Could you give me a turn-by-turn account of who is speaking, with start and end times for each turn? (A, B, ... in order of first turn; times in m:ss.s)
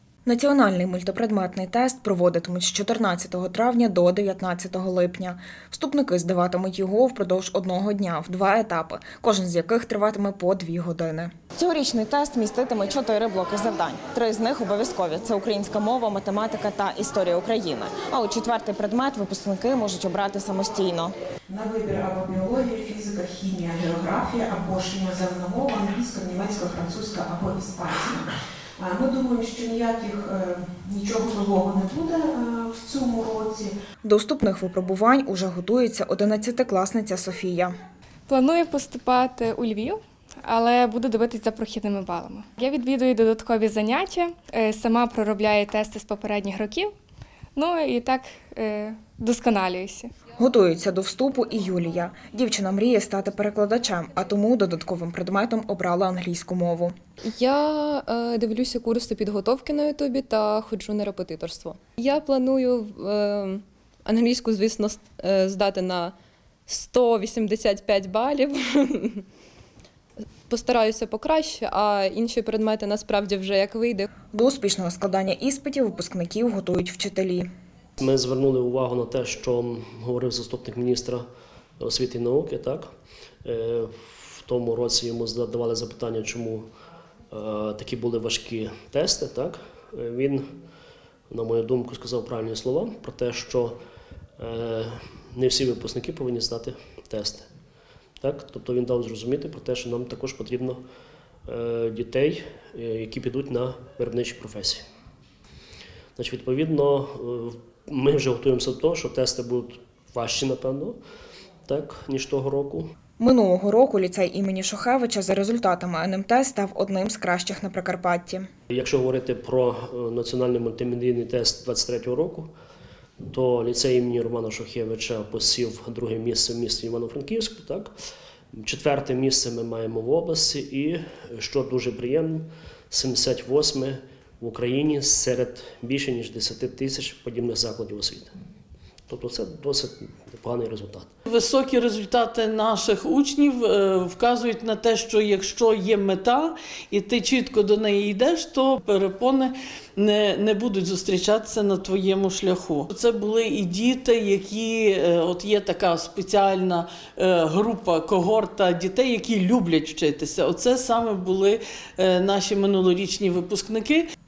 0:00.2-0:21.1 A
0:21.5-0:33.7 B
0:34.0-0:37.7 A
0:38.3-0:46.9 C
0:47.5-0:50.1 C
0:50.4-0:56.9 A
0:57.3-1:06.1 D
1:06.7-1:09.2 D
1:10.5-1:14.1 D
1:14.3-1:17.5 A
1:18.0-1:21.2 E
1:21.8-1:22.9 E
1:23.4-1:26.7 E
1:27.3-1:30.5 E
1:31.3-1:33.8 E
1:34.4-1:37.5 E
1:38.2-1:40.8 E
1:41.5-1:44.8 E
1:46.2-1:51.0 E
1:51.6-1:52.9 E
1:53.2-1:58.5 A
1:58.7-2:02.5 E
2:03.3-2:07.9 E
2:08.5-2:18.3 E
2:19.1-2:21.1 E
2:21.3-2:44.0 F